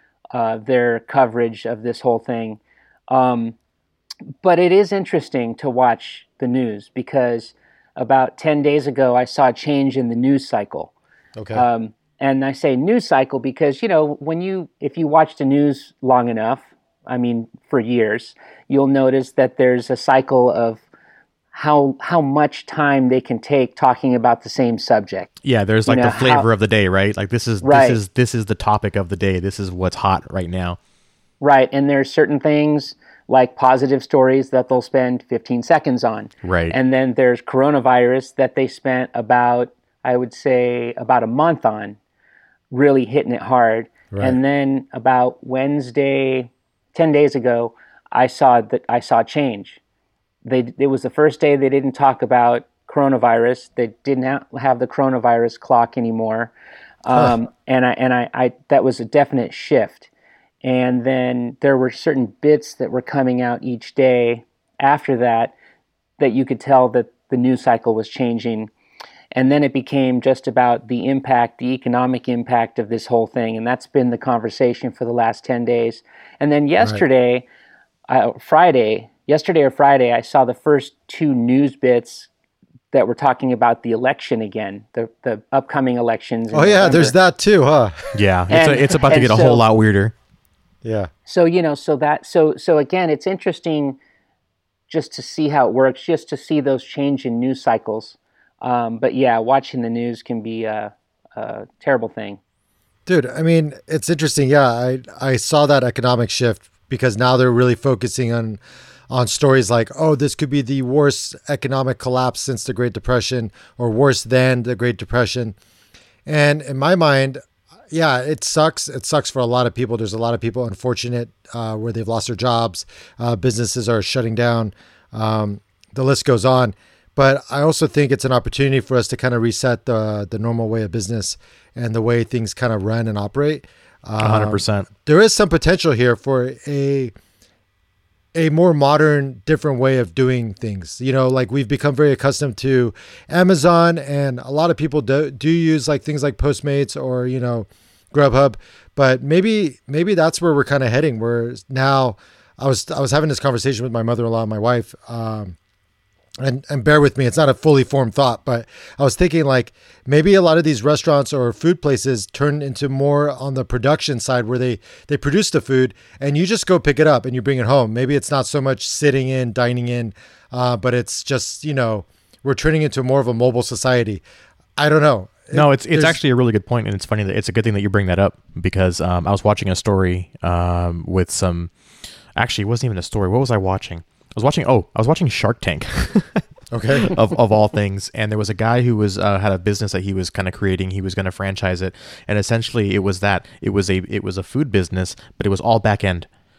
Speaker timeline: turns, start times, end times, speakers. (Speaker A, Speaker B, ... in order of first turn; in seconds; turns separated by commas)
Speaker A: 0.3-3.5, Speaker A: 4.4-10.9, Speaker B: 11.4-11.7, Speaker A: 11.5-20.8, Speaker A: 21.5-25.3, Speaker C: 25.4-30.8, Speaker A: 25.9-26.4, Speaker A: 27.6-28.0, Speaker A: 31.4-42.0, Speaker C: 36.4-36.8, Speaker A: 42.7-49.8, Speaker B: 44.1-44.4, Speaker A: 50.4-56.5, Speaker A: 57.0-60.1, Speaker A: 60.6-65.5, Speaker A: 66.2-68.7, Speaker A: 69.3-77.5, Speaker A: 78.1-82.3, Speaker A: 82.9-87.1, Speaker B: 86.5-88.1, Speaker C: 88.1-90.1, Speaker A: 88.5-89.6, Speaker B: 90.8-91.1, Speaker A: 91.2-94.0, Speaker A: 94.9-102.4, Speaker B: 103.1-115.5, Speaker B: 116.2-137.1, Speaker C: 134.2-134.9, Speaker B: 138.3-155.6, Speaker B: 156.4-174.2, Speaker B: 174.8-176.2, Speaker C: 175.5-181.7, Speaker C: 182.3-196.3, Speaker B: 186.7-187.1